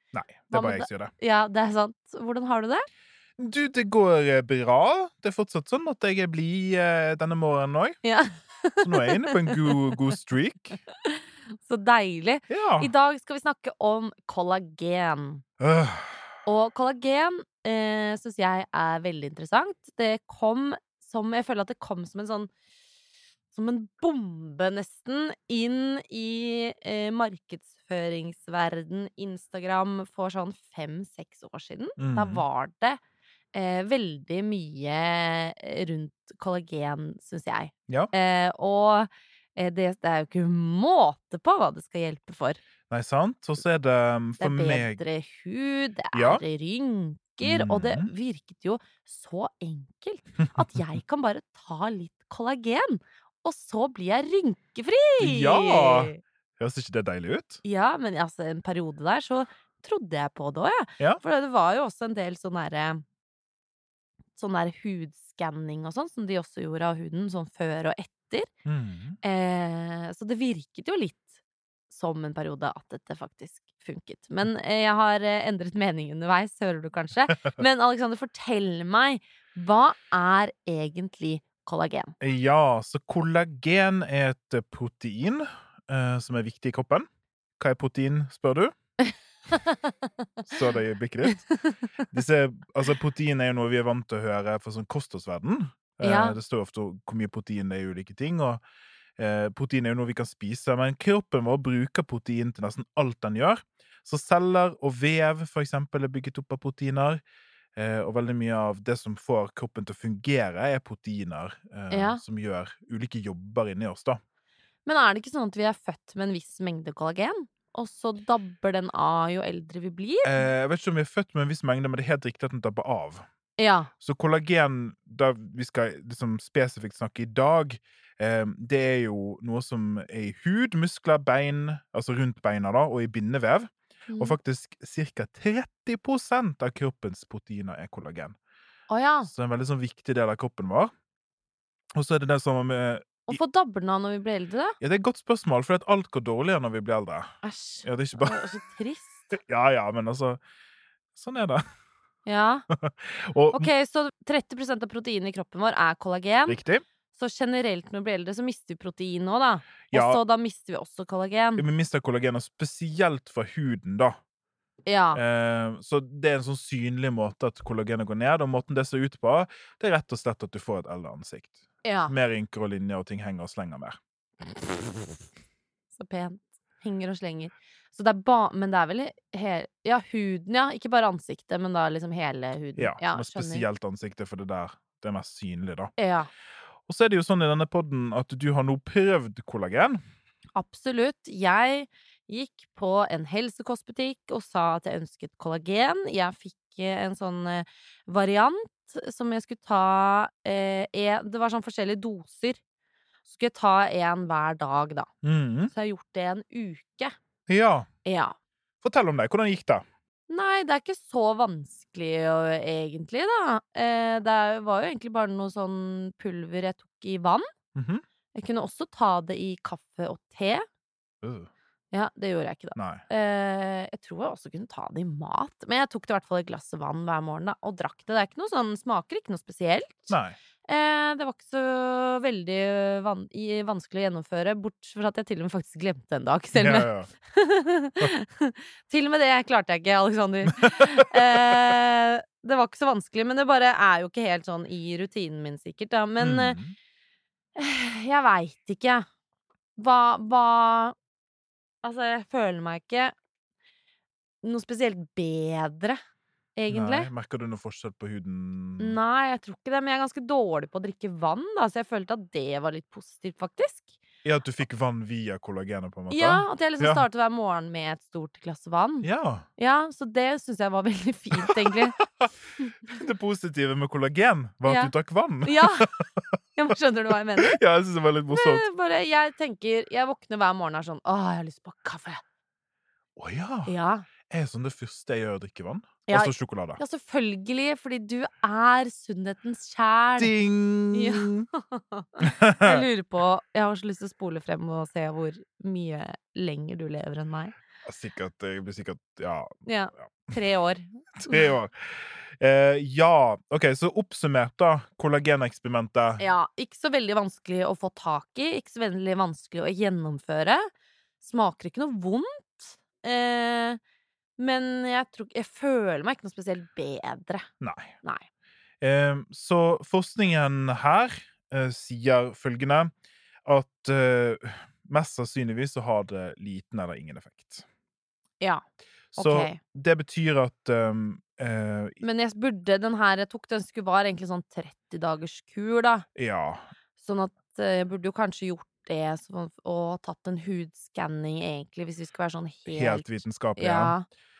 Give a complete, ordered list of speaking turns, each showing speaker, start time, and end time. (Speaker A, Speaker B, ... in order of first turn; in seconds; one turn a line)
Speaker A: 0.1-1.1
Speaker B: 0.5-2.8
Speaker A: 3.4-8.0
Speaker B: 8.0-9.9
Speaker A: 8.8-10.8
Speaker B: 11.0-15.4
Speaker A: 12.5-12.9
Speaker A: 15.6-16.3
Speaker B: 16.4-22.5
Speaker B: 23.5-33.0
Speaker A: 32.0-32.4
Speaker B: 33.5-42.6
Speaker A: 42.9-45.0
Speaker B: 44.4-56.2
Speaker A: 46.1-46.4
Speaker A: 47.4-48.1
Speaker A: 55.2-57.6
Speaker B: 57.6-63.0
Speaker B: 64.3-68.5
Speaker A: 68.7-69.2
Speaker B: 69.2-71.2
Speaker B: 71.9-82.1
Speaker A: 82.2-87.1
Speaker A: 87.6-88.7
Speaker B: 89.0-89.8
Speaker A: 90.5-91.4
Speaker B: 91.2-91.5
Speaker A: 92.1-98.6
Speaker B: 96.0-96.4
Speaker A: 99.2-107.2
Speaker A: 107.8-114.2
Speaker B: 111.9-112.2
Speaker B: 114.8-120.5
Speaker A: 120.2-123.2
Speaker B: 123.6-123.9
Speaker A: 124.0-138.3
Speaker B: 134.1-134.4
Speaker B: 138.9-139.3
Speaker A: 139.2-140.9
Speaker A: 141.9-143.4
Speaker B: 143.3-144.8
Speaker A: 144.8-147.3
Speaker B: 147.4-149.3
Speaker A: 147.8-148.4
Speaker A: 149.3-150.4
Speaker A: 151.1-151.6
Speaker B: 152.2-152.6
Speaker A: 152.7-153.7
Speaker B: 153.5-156.6
Speaker A: 156.5-156.8
Speaker B: 157.1-161.7
Speaker A: 159.9-160.2
Speaker A: 161.6-164.2
Speaker B: 164.8-165.2
Speaker A: 165.1-174.0
Speaker B: 171.8-172.1
Speaker B: 174.5-175.0
Speaker B: 175.9-183.7
Speaker A: 182.8-185.9
Speaker B: 186.0-186.3
Speaker A: 186.9-190.0
Speaker B: 190.5-202.6
Speaker B: 203.2-205.1
Speaker A: 205.2-205.7
Speaker B: 205.7-207.1
Speaker A: 207.5-207.9
Speaker B: 208.0-208.3
Speaker A: 208.8-209.8
Speaker B: 210.3-217.4
Speaker A: 217.7-218.0
Speaker B: 218.3-220.7
Speaker A: 221.2-221.5
Speaker B: 221.9-246.6
Speaker A: 222.7-223.0
Speaker A: 230.1-230.3
Speaker A: 236.5-237.1
Speaker A: 246.2-246.8
Speaker B: 247.5-249.0
Speaker B: 249.8-250.9
Speaker B: 251.8-253.1
Speaker B: 254.4-256.0
Speaker B: 256.6-257.1
Speaker A: 256.7-259.0
Speaker B: 258.8-263.9
Speaker A: 264.2-267.0
Speaker B: 266.1-272.0
Speaker A: 269.0-269.4
Speaker A: 271.5-271.7
Speaker A: 272.9-276.2
Speaker B: 274.6-275.9
Speaker B: 276.6-277.6
Speaker A: 277.4-278.6
Speaker B: 278.3-282.2
Speaker A: 283.2-283.7
Speaker B: 283.6-284.1
Speaker A: 284.3-286.8
Speaker B: 286.1-290.3
Speaker A: 290.2-291.3
Speaker B: 290.9-297.5
Speaker A: 292.2-292.8
Speaker A: 297.8-300.3
Speaker B: 299.6-301.5
Speaker A: 301.2-306.2
Speaker B: 306.2-310.6
Speaker B: 311.2-313.8
Speaker B: 314.4-317.5
Speaker A: 317.6-317.9
Speaker A: 318.8-322.9
Speaker A: 323.4-327.6
Speaker A: 329.1-332.0
Speaker B: 329.2-329.6
Speaker B: 332.0-336.0
Speaker A: 336.1-336.7
Speaker B: 337.0-344.1
Speaker A: 342.7-344.0